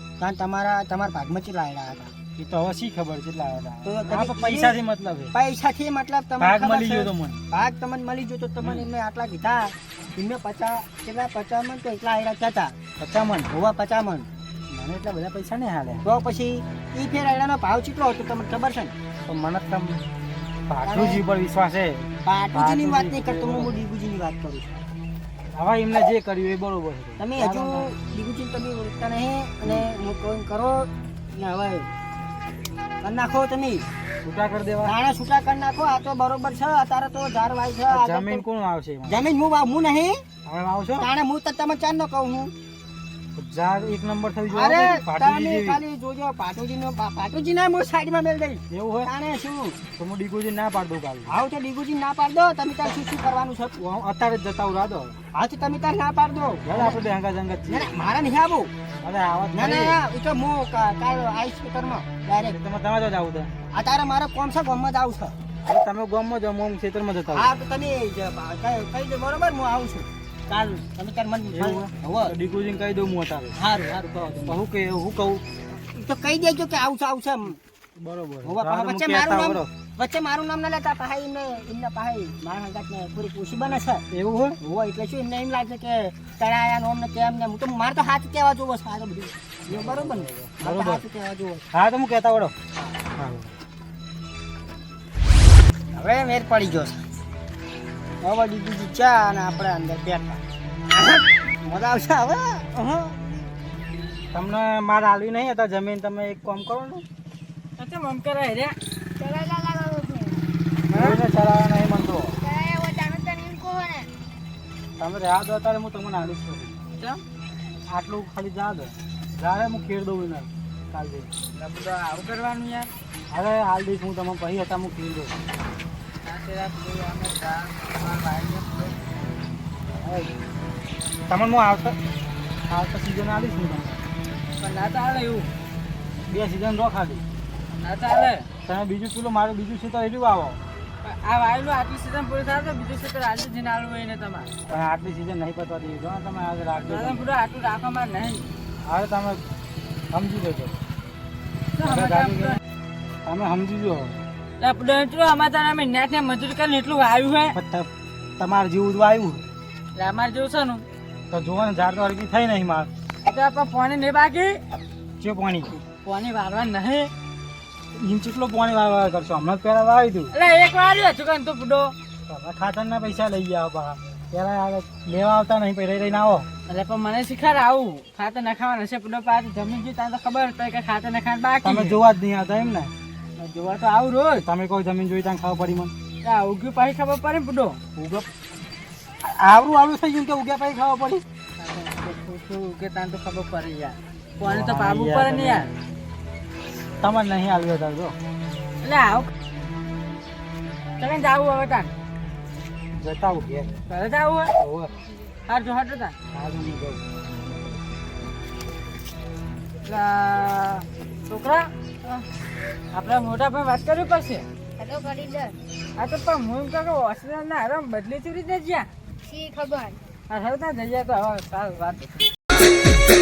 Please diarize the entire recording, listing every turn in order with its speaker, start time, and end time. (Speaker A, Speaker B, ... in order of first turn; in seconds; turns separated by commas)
Speaker A: 0.2-2.1, Speaker B: 2.4-5.3, Speaker A: 3.9-4.8, Speaker A: 5.3-12.8, Speaker B: 6.4-7.4, Speaker B: 13.0-13.5, Speaker A: 13.5-14.3, Speaker B: 14.7-16.0, Speaker A: 16.0-18.9, Speaker B: 19.3-20.0, Speaker B: 20.7-23.8, Speaker A: 20.8-21.2, Speaker A: 22.2-24.8, Speaker B: 25.6-27.9, Speaker A: 27.2-31.9, Speaker A: 33.0-33.9, Speaker B: 34.2-34.9, Speaker A: 34.8-38.4, Speaker B: 37.9-39.2, Speaker A: 39.1-40.2, Speaker B: 40.5-41.1, Speaker A: 41.0-42.5, Speaker B: 43.4-45.8, Speaker A: 44.5-49.8, Speaker B: 48.7-49.1, Speaker B: 50.0-51.4, Speaker A: 51.3-53.8, Speaker B: 53.8-55.2, Speaker A: 55.3-57.0, Speaker B: 56.6-58.0, Speaker A: 57.7-58.7, Speaker B: 59.0-60.0, Speaker A: 59.5-62.6, Speaker B: 62.5-63.5, Speaker A: 63.7-65.3, Speaker B: 65.6-67.5, Speaker A: 67.3-72.3, Speaker B: 71.5-73.5, Speaker A: 73.6-74.6, Speaker B: 74.5-75.4, Speaker A: 75.7-77.6, Speaker B: 78.0-79.7, Speaker A: 78.5-84.0, Speaker B: 84.1-84.6, Speaker A: 84.6-91.7, Speaker B: 89.7-91.0, Speaker B: 91.7-92.5, Speaker B: 93.2-93.5, Speaker A: 95.9-97.0, Speaker A: 98.2-103.2, Speaker B: 104.3-107.0, Speaker C: 107.8-108.8, Speaker D: 109.2-110.4, Speaker B: 110.9-112.3, Speaker C: 110.9-111.2, Speaker D: 112.4-114.1, Speaker B: 115.0-116.7, Speaker B: 117.9-121.3, Speaker C: 121.5-122.9, Speaker B: 123.3-125.3, Speaker C: 126.2-129.1, Speaker B: 130.0-130.3, Speaker B: 131.3-132.0, Speaker B: 132.7-134.0, Speaker C: 134.6-135.5, Speaker B: 136.3-137.2, Speaker C: 137.7-138.5, Speaker B: 138.7-140.6, Speaker C: 141.0-144.5, Speaker B: 144.7-147.3, Speaker C: 146.9-148.5, Speaker B: 148.8-149.4, Speaker B: 150.1-150.8, Speaker C: 151.7-152.6, Speaker B: 151.8-152.6, Speaker B: 153.2-154.2, Speaker C: 154.6-157.6, Speaker B: 157.5-159.5, Speaker C: 159.9-160.8, Speaker B: 161.3-162.9, Speaker C: 163.3-164.6, Speaker B: 165.2-165.8, Speaker C: 165.9-167.1, Speaker B: 167.9-170.3, Speaker C: 170.3-171.9, Speaker B: 172.3-176.5, Speaker C: 176.7-182.0, Speaker B: 181.6-182.9, Speaker C: 183.4-184.4, Speaker B: 184.4-185.9, Speaker C: 186.2-187.8, Speaker B: 188.0-188.3, Speaker B: 189.2-191.2, Speaker C: 191.6-195.7, Speaker B: 194.4-195.7, Speaker B: 197.0-198.2, Speaker C: 198.8-199.3, Speaker C: 201.0-201.9, Speaker B: 202.9-203.7, Speaker C: 203.9-204.5, Speaker B: 204.6-204.9, Speaker C: 205.5-206.2, Speaker B: 206.3-207.0, Speaker C: 209.9-212.2, Speaker C: 212.9-214.5, Speaker D: 214.8-215.6, Speaker C: 216.0-218.9, Speaker D: 219.2-220.0, Speaker C: 220.3-222.3